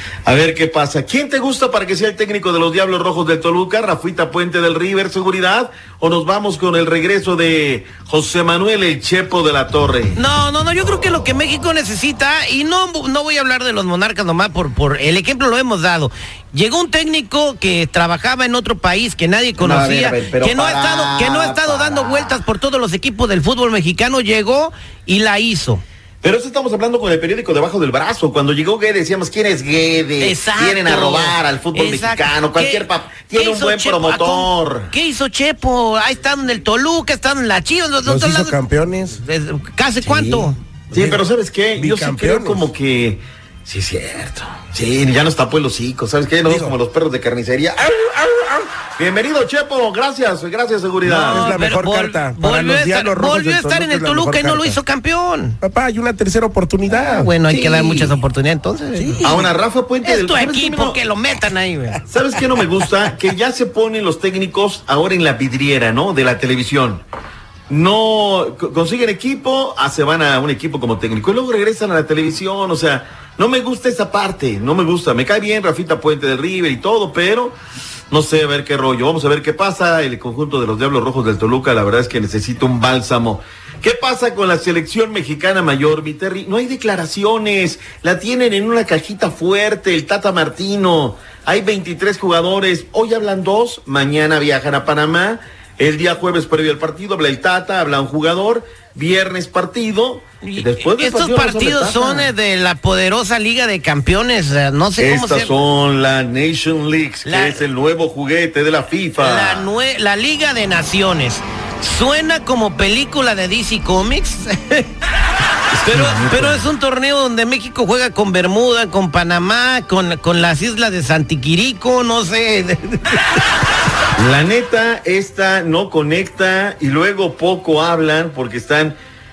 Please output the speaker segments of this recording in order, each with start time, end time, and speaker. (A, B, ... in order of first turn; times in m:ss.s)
0:00.3-0:10.2 A
0:10.2-0:25.8 B
0:19.6-0:22.4 A
0:26.2-0:34.9 A
0:30.2-0:38.6 B
0:38.0-0:39.2 C
0:39.1-0:40.6 B
0:40.2-0:51.6 A
0:41.8-0:42.7 C
0:46.4-0:46.8 C
0:51.0-0:54.8 C
0:51.2-0:55.6 B
0:55.6-0:57.3 C
0:57.0-0:59.4 B
0:57.5-0:58.1 A
0:59.0-0:59.4 C
0:59.2-1:01.0 A
1:00.0-1:02.0 B
1:02.1-1:07.0 A
1:07.7-1:17.6 A
1:18.1-1:42.3 A
1:40.4-1:45.5 B
1:45.0-1:49.7 A
1:47.2-1:47.6 B
1:49.2-1:54.9 B
1:55.8-2:03.4 B
2:04.2-2:09.0 A